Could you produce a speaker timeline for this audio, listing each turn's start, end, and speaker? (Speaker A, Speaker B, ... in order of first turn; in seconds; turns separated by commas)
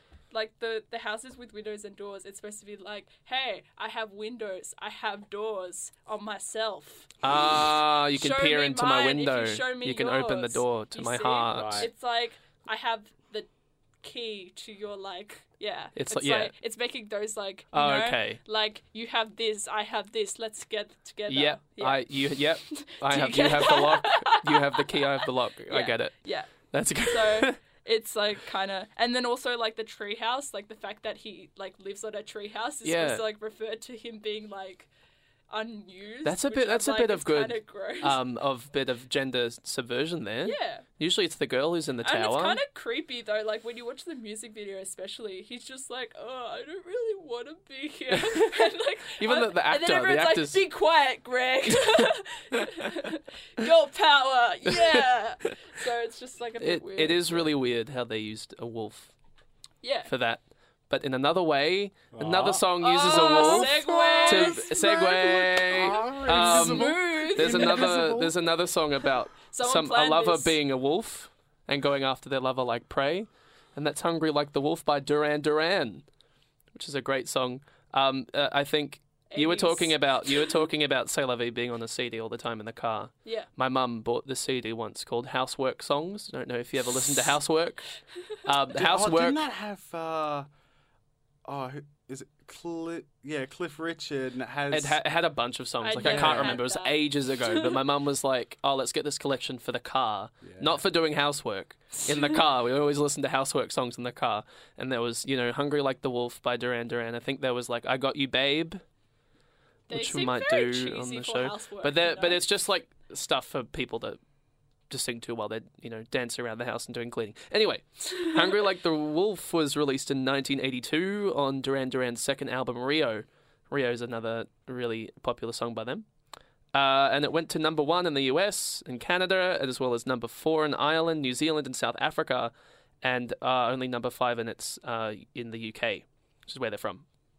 Speaker A: 0.3-13.5, Speaker B: 7.2-11.9, Speaker C: 11.5-11.9, Speaker A: 14.0-34.9, Speaker B: 15.9-16.5, Speaker B: 17.7-18.4, Speaker B: 21.3-27.6, Speaker B: 32.8-33.2, Speaker A: 35.5-38.2, Speaker B: 36.2-42.6, Speaker A: 40.4-40.9, Speaker A: 42.0-57.5, Speaker B: 48.2-50.6, Speaker B: 56.6-59.1, Speaker A: 59.8-60.1, Speaker B: 60.1-76.0, Speaker C: 62.1-64.6, Speaker A: 62.8-68.0, Speaker C: 65.7-68.4, Speaker A: 69.3-70.6, Speaker B: 76.7-89.4, Speaker A: 79.3-80.6, Speaker C: 88.8-90.5, Speaker C: 91.5-95.0, Speaker B: 94.7-108.8, Speaker A: 95.8-97.8, Speaker C: 96.0-96.6, Speaker C: 100.4-100.9, Speaker A: 109.9-112.5, Speaker B: 109.9-114.2, Speaker B: 114.9-126.1, Speaker B: 126.7-137.1